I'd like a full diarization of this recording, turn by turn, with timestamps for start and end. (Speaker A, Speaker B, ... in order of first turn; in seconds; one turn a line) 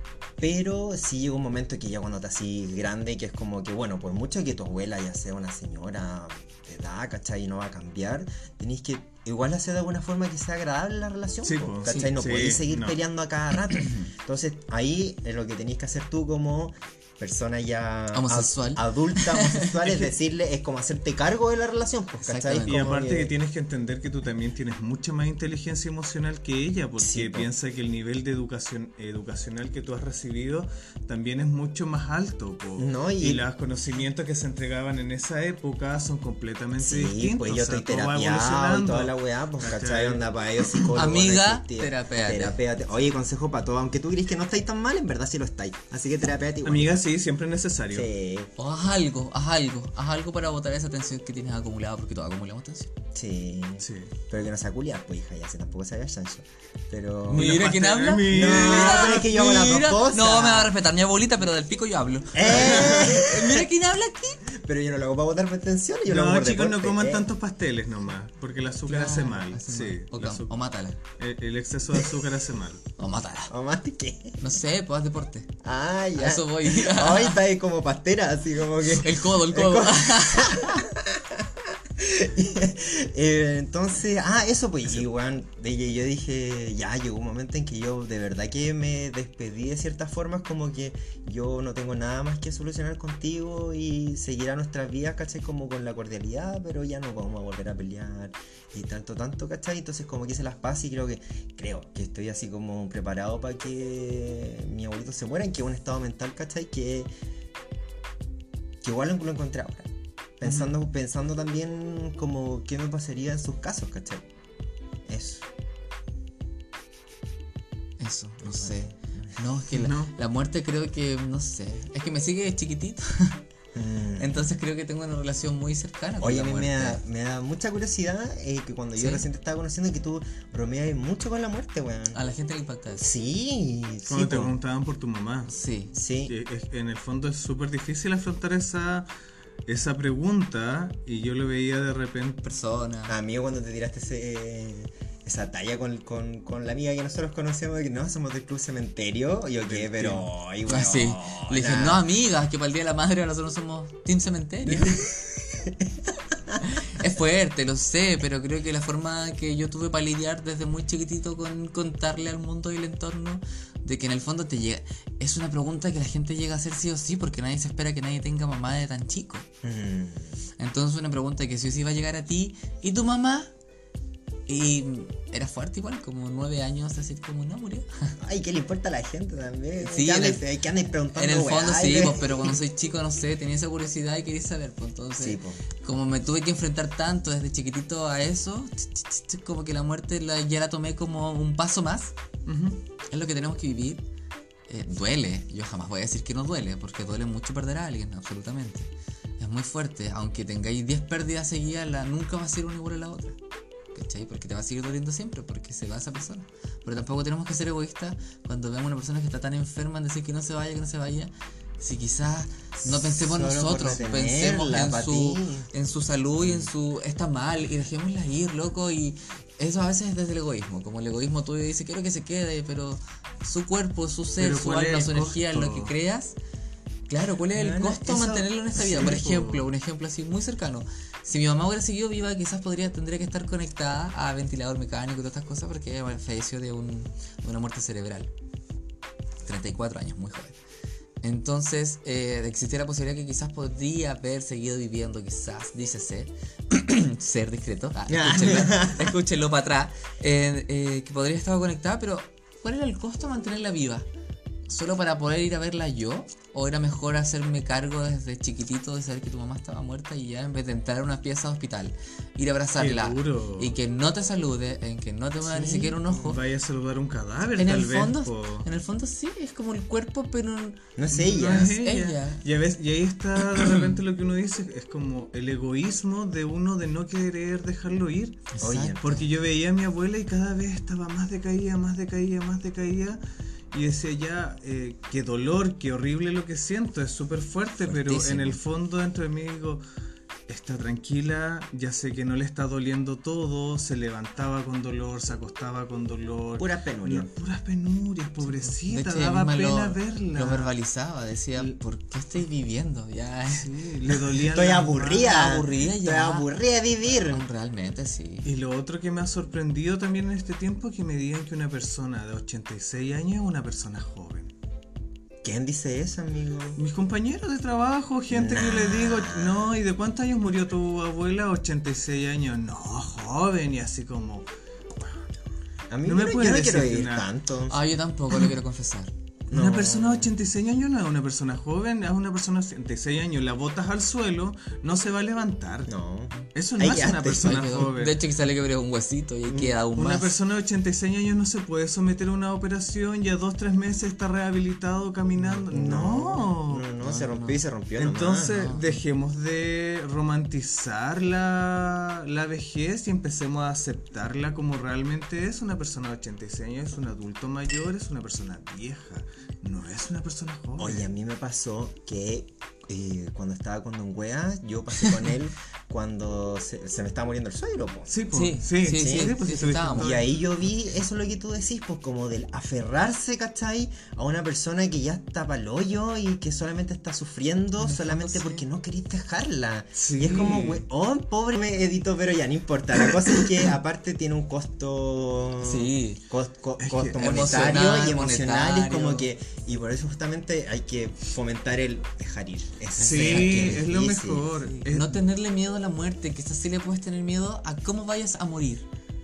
Speaker A: 0.4-23.3
Speaker B: 11.5-13.0
Speaker C: 11.9-12.1
Speaker C: 18.1-20.0
Speaker C: 22.2-22.9
Speaker B: 22.6-40.2
Speaker A: 27.0-27.5
Speaker A: 32.8-33.4
Speaker A: 36.8-47.0
Speaker C: 40.9-42.6
Speaker B: 46.6-48.1
Speaker A: 47.9-48.5
Speaker C: 48.6-52.9
Speaker A: 53.1-57.6
Speaker B: 53.8-54.1
Speaker C: 57.3-64.5
Speaker B: 57.3-59.5
Speaker A: 58.3-60.8
Speaker A: 62.3-63.7
Speaker B: 62.5-63.2
Speaker A: 64.5-67.3
Speaker B: 66.1-70.5
Speaker C: 68.9-71.0
Speaker B: 71.2-72.8
Speaker C: 73.0-73.5
Speaker A: 73.5-74.4
Speaker C: 74.4-75.5
Speaker A: 75.6-107.1
Speaker C: 76.2-77.4
Speaker C: 78.9-80.9
Speaker A: 108.8-114.3
Speaker B: 110.4-110.7
Speaker A: 115.1-115.5
Speaker C: 118.0-123.4
Speaker A: 118.4-119.3
Speaker B: 119.7-120.1
Speaker A: 123.7-124.4
Speaker C: 124.2-127.0
Speaker A: 126.2-132.2
Speaker C: 129.0-129.3
Speaker C: 132.1-133.1
Speaker A: 133.0-134.6
Speaker B: 134.1-135.5
Speaker C: 135.5-135.9
Speaker A: 135.9-136.3
Speaker B: 136.3-139.1
Speaker B: 139.7-142.4
Speaker C: 142.4-143.2
Speaker A: 143.1-152.1
Speaker B: 149.7-150.3
Speaker C: 150.7-155.1
Speaker A: 154.7-155.9
Speaker C: 156.6-169.5
Speaker A: 169.6-170.4
Speaker C: 170.6-173.5
Speaker C: 174.5-178.2
Speaker A: 178.2-182.5
Speaker C: 179.8-180.4
Speaker C: 181.1-192.1
Speaker A: 185.2-185.6
Speaker B: 192.5-192.8
Speaker C: 193.1-194.0
Speaker C: 194.7-203.4
Speaker C: 203.9-226.4
Speaker A: 212.8-215.7
Speaker A: 216.4-216.7
Speaker B: 224.4-225.9
Speaker C: 227.1-238.3
Speaker A: 227.5-228.5
Speaker B: 228.7-229.7
Speaker C: 239.4-240.6
Speaker C: 241.2-254.1
Speaker A: 248.1-249.2
Speaker C: 254.7-266.4
Speaker B: 262.8-263.8
Speaker A: 265.4-266.3
Speaker B: 266.2-268.7
Speaker C: 267.6-270.8
Speaker A: 271.0-271.8
Speaker B: 271.1-278.5
Speaker C: 271.5-272.4
Speaker C: 278.5-279.2
Speaker A: 278.6-279.2
Speaker B: 279.0-283.2
Speaker B: 283.7-289.8
Speaker C: 287.8-288.6
Speaker B: 290.5-300.7
Speaker A: 296.6-297.3
Speaker C: 298.4-303.7
Speaker B: 303.5-305.3
Speaker A: 304.4-307.5
Speaker C: 305.2-306.5
Speaker C: 307.2-308.5
Speaker B: 308.4-314.5
Speaker A: 315.4-316.8
Speaker B: 316.8-324.5
Speaker A: 318.3-319.7
Speaker A: 325.9-327.8
Speaker B: 326.1-327.3
Speaker C: 327.7-329.1
Speaker A: 329.5-330.3
Speaker B: 329.5-335.9
Speaker A: 335.9-337.9
Speaker B: 336.5-338.2
Speaker C: 337.4-340.3
Speaker A: 339.5-339.8
Speaker B: 340.0-346.9
Speaker C: 345.4-345.6
Speaker A: 345.7-348.7
Speaker C: 347.0-347.6
Speaker B: 348.0-361.1
Speaker C: 348.4-349.0
Speaker A: 360.8-368.1
Speaker B: 368.1-370.4
Speaker C: 368.3-370.2
Speaker A: 368.9-369.4
Speaker A: 369.9-394.5
Speaker C: 377.8-378.6
Speaker B: 380.0-380.9
Speaker C: 385.6-386.2
Speaker B: 386.8-387.2
Speaker C: 387.2-389.3
Speaker C: 393.0-393.8
Speaker B: 393.0-395.2
Speaker C: 394.6-398.9